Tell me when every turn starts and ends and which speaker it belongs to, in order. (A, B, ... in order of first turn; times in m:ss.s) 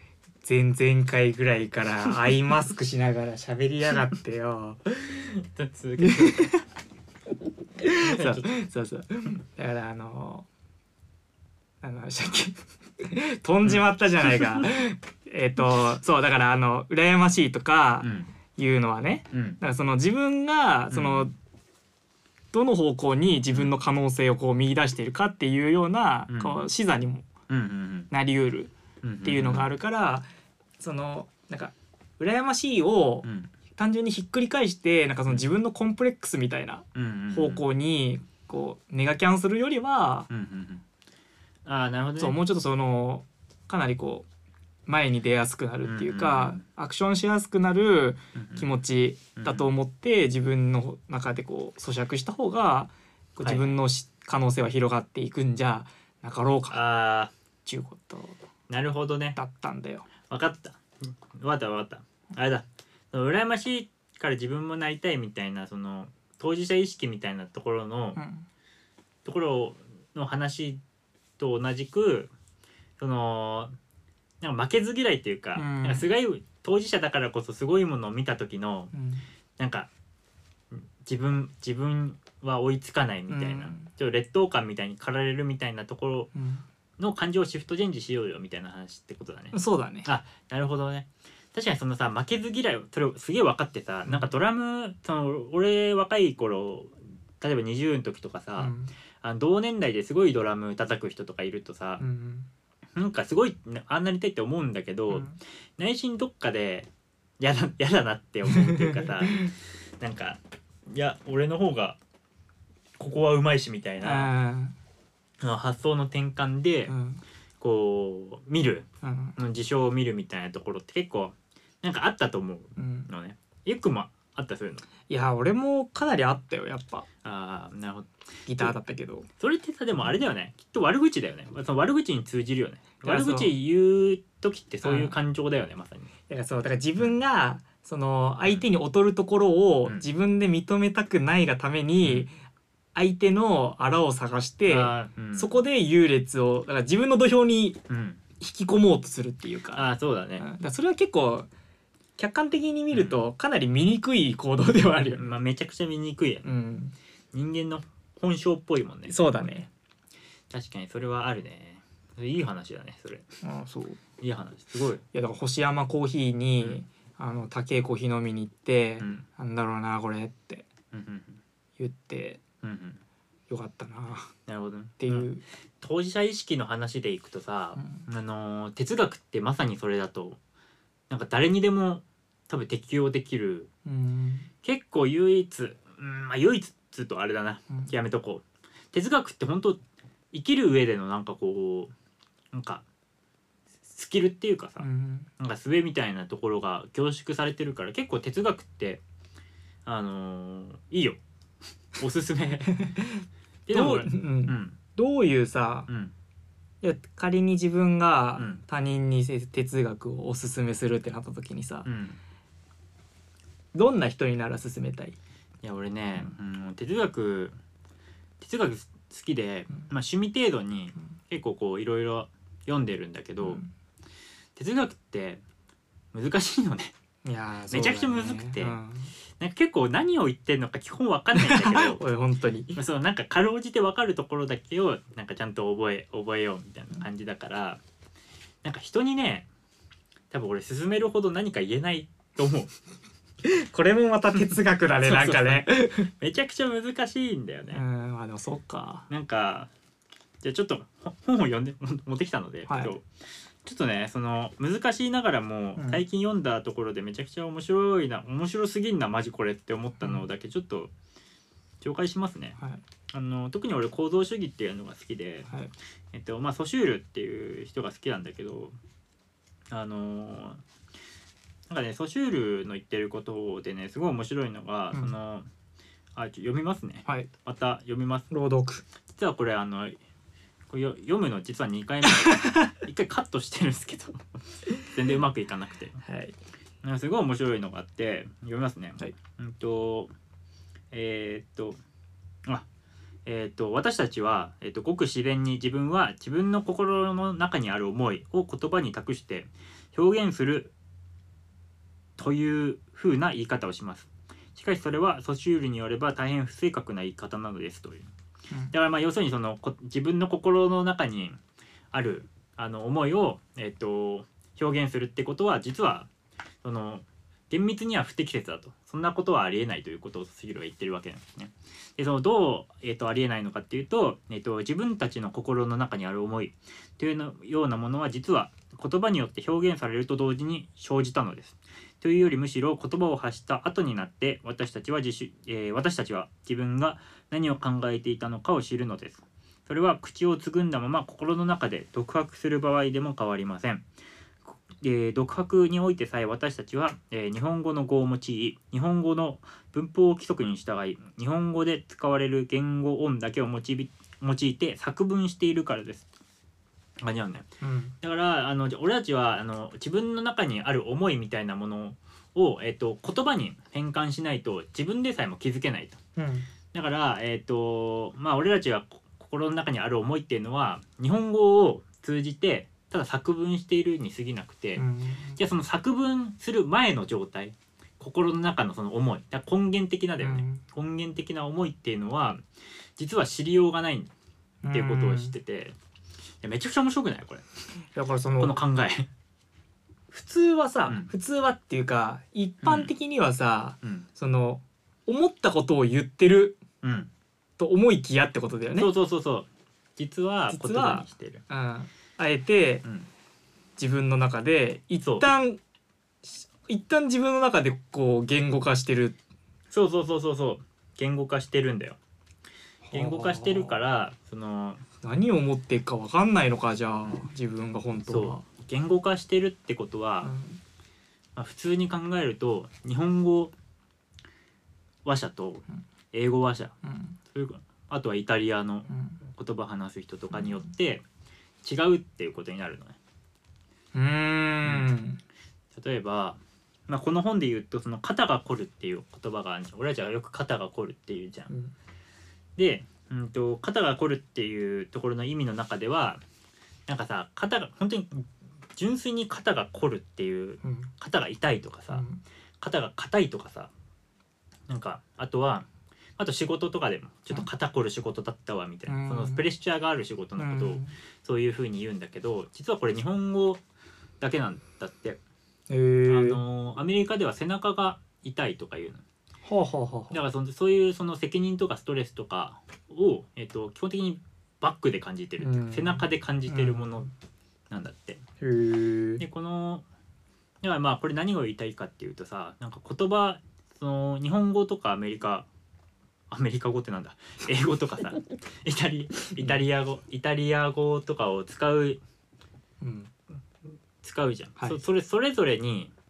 0:00.4-0:05.3 A
0:05.2-0:06.6 B
0:06.0-0:06.6 A
0:07.8-0:10.5 A
0:08.0-0:08.5 B
0:11.8-0:21.3 A
0:18.0-0:18.3 B
0:19.3-0:19.6 B
0:20.9-0:21.3 B
0:22.5-0:27.3 A
0:26.3-0:26.7 B
0:27.5-0:28.1 B
0:28.1-0:28.7 A
0:29.0-0:29.7 B
0:29.2-0:30.3 A
0:30.8-0:40.3 A
0:33.2-0:33.5 B
0:37.0-0:37.6 B
0:40.3-0:40.8 B
0:41.7-0:42.4 B
0:42.2-0:44.3 A
0:44.9-0:56.8 A
0:45.8-0:46.6 B
0:48.4-0:48.7 B
0:49.4-0:49.7 B
0:53.4-0:53.8 B
0:56.7-0:57.3 B
0:57.7-0:58.4 A
0:58.7-0:59.4 B
0:59.4-1:00.1 A
1:00.3-1:08.2 B
1:08.2-1:08.5 A
1:09.2-1:10.8 B
1:11.4-1:12.3 B
1:13.0-1:13.8 B
1:14.4-1:18.9 B
1:15.6-1:16.1 A
1:18.9-1:19.2 A
1:19.6-1:19.9 B
1:20.7-1:26.3 B
1:23.3-1:23.9 A
1:26.4-1:26.6 A
1:27.0-1:42.0 B
1:29.5-1:30.1 A
1:38.6-1:38.9 A
1:42.0-1:42.5 A
1:43.0-1:46.9 B
1:45.1-1:45.4 A
1:47.4-1:52.0 B
1:48.5-1:49.5 A
1:53.0-1:54.3 B
1:54.0-1:54.8 A
1:55.4-1:57.0 B
1:56.9-1:57.2 A
1:57.6-2:04.8 B
1:59.0-1:59.4 A
2:02.8-2:03.1 A
2:05.1-2:07.1 A
2:07.2-2:08.7 B
2:08.5-2:09.3 A
2:09.4-2:16.1 B
2:13.0-2:13.5 A
2:14.8-2:15.2 A
2:16.3-2:22.3 A
2:22.0-2:22.3 B
2:23.0-2:27.8 A
2:24.7-2:25.6 B
2:27.9-2:28.2 B
2:28.4-2:29.9 A
2:29.7-2:30.5 B
2:30.4-2:31.5 A
2:32.2-2:35.3 A
2:32.9-2:33.2 B
2:35.2-2:36.5 B
2:36.4-2:37.0 A
2:37.3-2:39.2 B
2:39.1-2:39.7 A
2:40.5-2:43.3 B
2:43.4-2:44.0 A
2:44.2-2:45.0 B
2:45.1-2:50.7 A
2:49.0-2:49.2 B
2:50.9-2:51.4 B
2:51.8-2:52.4 A
2:52.6-2:53.0 B
2:53.5-2:54.3 A
2:54.5-2:55.3 B
2:55.0-2:55.4 A
2:55.8-3:00.4 B
2:57.8-2:58.0 A
3:01.1-3:03.7 B
3:03.8-3:04.5 A
3:04.6-3:09.8 B
3:10.3-3:11.9 B
3:12.5-3:12.8 B
3:13.9-3:19.0 B
3:14.8-3:15.3 A
3:19.9-3:21.2 B
3:21.9-3:22.8 B
3:22.7-3:25.9 A
3:23.7-3:24.8 B
3:25.9-3:26.1 B
3:26.8-3:31.9 A
3:31.8-3:32.2 B
3:33.7-3:35.2 A
3:35.6-3:37.6 B
3:38.4-3:43.6 B
3:44.6-3:45.4 B
3:46.1-3:46.9 B
3:47.2-3:49.1 A
3:47.7-3:48.8 B
3:49.4-3:52.0 B
3:51.4-3:52.8 A
3:52.8-3:57.8 B
3:58.6-3:59.5 B
4:00.3-4:02.7 B
4:03.4-4:06.1 A
4:05.0-4:07.8 B
4:07.7-4:09.1 A
4:09.1-4:09.7 B
4:10.4-4:13.0 B
4:12.7-4:13.0 A
4:13.6-4:20.9 B
4:15.8-4:16.0 A
4:20.0-4:20.2 A
4:21.8-4:22.6 B
4:23.1-4:25.5 B
4:26.1-4:28.8 B
4:29.7-4:30.6 B
4:31.7-4:35.5 B
4:36.2-4:38.3 B
4:38.3-4:38.8 A
4:39.1-4:40.0 B
4:40.7-4:46.0 B
4:42.2-4:42.7 A
4:46.0-4:46.4 A
4:46.8-4:50.1 B
4:50.9-4:51.8 B
4:53.3-5:00.7 B
5:02.2-5:08.1 B
5:08.7-5:11.4 B
5:11.9-5:16.1 B
5:16.6-5:43.8 B
5:44.5-5:56.1 B
5:57.0-5:57.5 B
5:57.6-5:57.9 A
5:58.0-6:06.0 B
6:06.2-6:06.5 A
6:06.7-6:14.8 B
6:14.8-6:15.4 A
6:15.4-6:22.4 B
6:20.2-6:20.6 A
6:23.0-6:24.1 B
6:24.6-6:25.3 A
6:24.7-6:25.8 B
6:26.4-6:27.4 B
6:28.0-6:28.6 A
6:28.4-6:29.1 B
6:30.1-6:36.6 A
6:32.6-6:32.9 B
6:36.8-6:37.1 B
6:37.6-6:38.9 A
6:38.8-6:41.4 B
6:40.5-6:42.8 A
6:43.8-6:45.6 A
6:45.0-6:45.3 B
6:46.2-6:49.2 A
6:49.7-6:52.0 B
6:52.8-6:53.8 A
6:52.9-6:54.8 B
6:55.0-6:58.4 A
6:58.1-7:00.3 B
7:00.2-7:00.6 A
7:01.4-7:03.5 B
7:05.0-7:06.8 B
7:06.8-7:07.2 A
7:07.3-7:11.0 B
7:08.9-7:09.2 A
7:10.3-7:10.6 A
7:11.6-7:13.0 B
7:13.9-7:15.2 A
7:14.6-7:14.9 B
7:15.7-7:21.5 B
7:22.6-7:26.2 B
7:26.9-7:32.0 B
7:30.6-7:30.9 A
7:31.9-7:32.2 A
7:32.6-7:33.7 B
7:34.7-7:43.6 B
7:38.9-7:39.5 A
7:40.4-7:40.9 A
7:44.2-7:45.2 B
7:45.7-7:46.4 A
7:46.1-7:49.0 B
7:49.4-7:50.2 A
7:50.1-7:57.1 B
7:55.4-7:57.0 A
7:57.7-7:58.2 B
7:58.4-7:59.2 A
7:59.2-7:59.9 B
8:00.6-8:05.5 B
8:06.3-8:12.0 B
8:12.8-8:13.1 A
8:14.0-8:15.9 B